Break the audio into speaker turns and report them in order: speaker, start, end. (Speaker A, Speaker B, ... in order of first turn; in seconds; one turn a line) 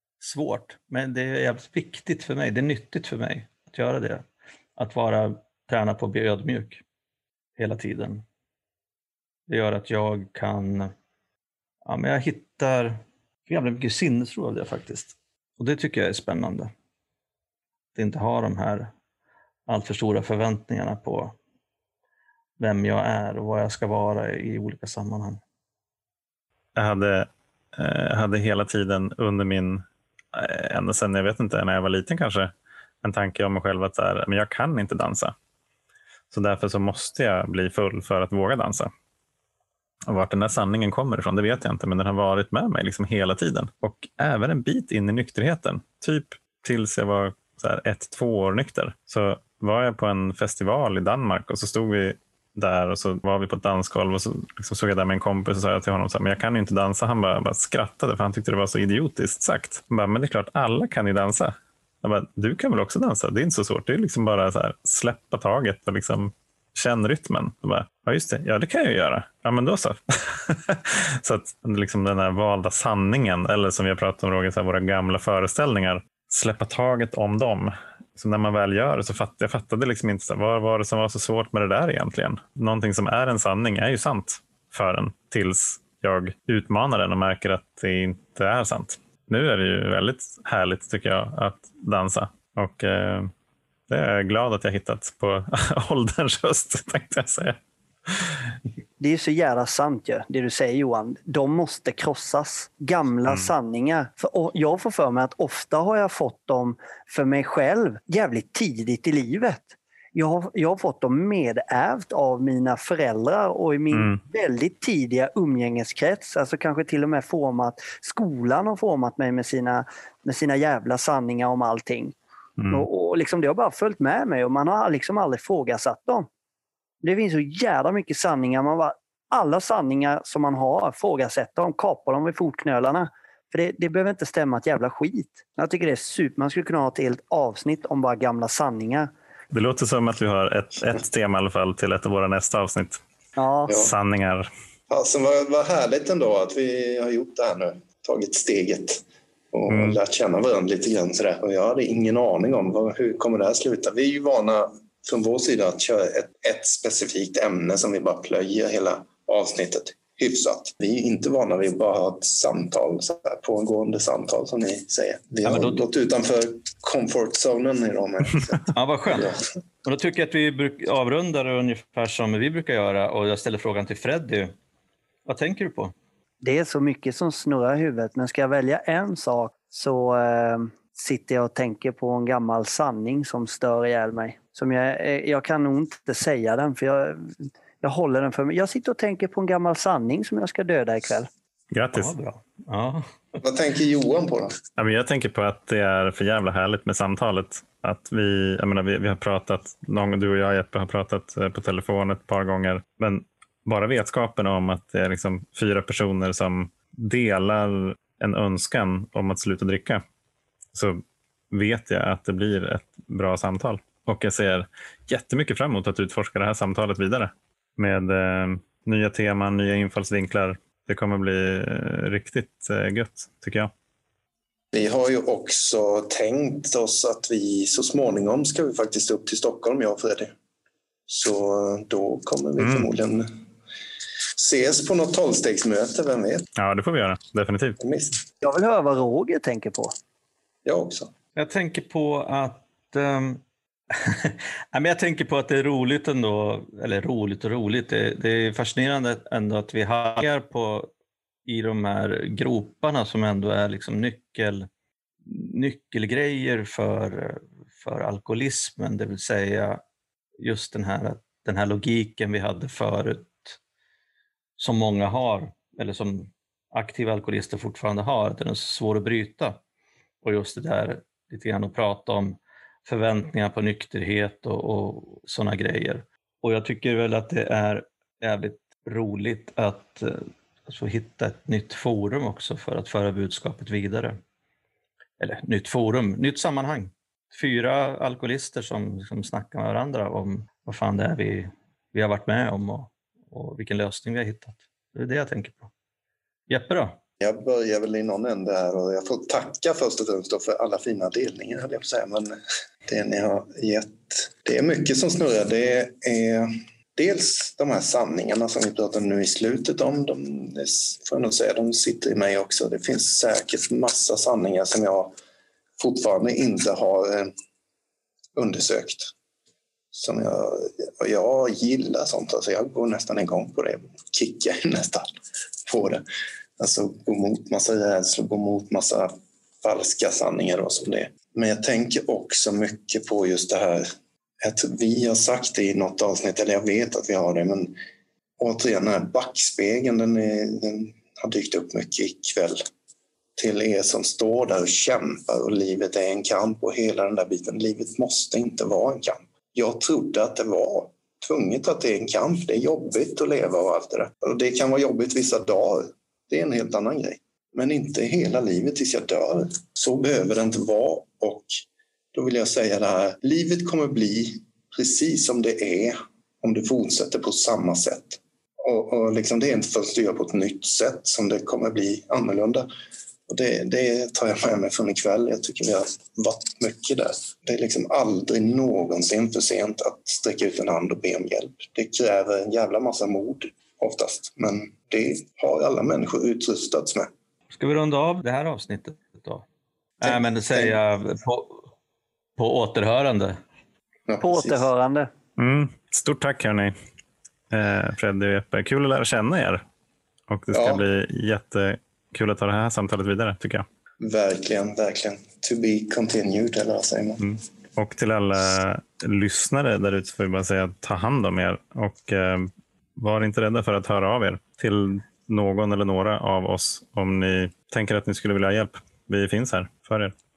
Speaker A: 0.2-4.2
Speaker A: 4.8-6.8
Speaker A: 7.6-8.2
Speaker A: 9.5-10.9
Speaker A: 11.8-16.7
Speaker A: 17.9-18.9
Speaker A: 19.7-21.4
Speaker A: 22.6-25.4
Speaker B: 26.8-35.3
Speaker B: 36.3-38.9
Speaker B: 40.1-93.3
Speaker B: 93.9-97.6
Speaker B: 98.1-98.4
Speaker C: 99.0-122.2
Speaker B: 103.3-103.5
Speaker B: 113.9-114.2
Speaker B: 122.6-122.9
Speaker C: 122.7-126.3
Speaker C: 127.0-139.1
Speaker B: 139.5-143.0
Speaker C: 143.4-143.8
Speaker B: 143.7-144.5
Speaker D: 144.9-169.4
Speaker B: 149.7-150.0
Speaker A: 165.4-165.8
Speaker A: 168.7-174.5
Speaker A: 175.2-175.9
Speaker C: 176.4-191.3
Speaker B: 191.7-192.1
Speaker A: 191.9-193.4
Speaker D: 193.4-194.6
Speaker B: 194.8-210.0
Speaker B: 210.7-223.7
Speaker D: 224.7-230.3
Speaker D: 231.1-233.4
Speaker B: 232.6-232.9
Speaker D: 234.3-236.5
Speaker B: 236.6-237.8
Speaker D: 237.8-238.2
Speaker C: 238.4-239.9
Speaker D: 240.6-241.1
Speaker A: 241.3-250.9
Speaker A: 251.4-254.7
Speaker A: 255.2-259.8
Speaker A: 260.4-263.6
Speaker A: 264.6-269.6
Speaker A: 270.2-284.2
Speaker A: 285.2-295.7
Speaker A: 296.5-297.0
Speaker D: 297.2-315.1
Speaker D: 315.8-317.3
Speaker D: 318.3-319.1
Speaker D: 319.9-325.1
Speaker D: 325.6-326.0
Speaker D: 326.6-329.1
Speaker D: 329.6-333.9
Speaker D: 334.4-337.8
Speaker D: 338.4-342.6
Speaker D: 343.4-361.5
Speaker D: 362.1-372.7
Speaker D: 373.3-387.1
Speaker A: 387.5-389.4
Speaker A: 390.0-391.7
Speaker D: 390.0-390.8
Speaker A: 392.4-393.4
Speaker D: 394.1-394.6
Speaker C: 394.2-395.1
Speaker B: 395.4-396.7
Speaker B: 397.5-399.6
Speaker B: 400.3-403.6
Speaker D: 400.5-400.8
Speaker D: 404.0-407.2
Speaker B: 407.2-420.1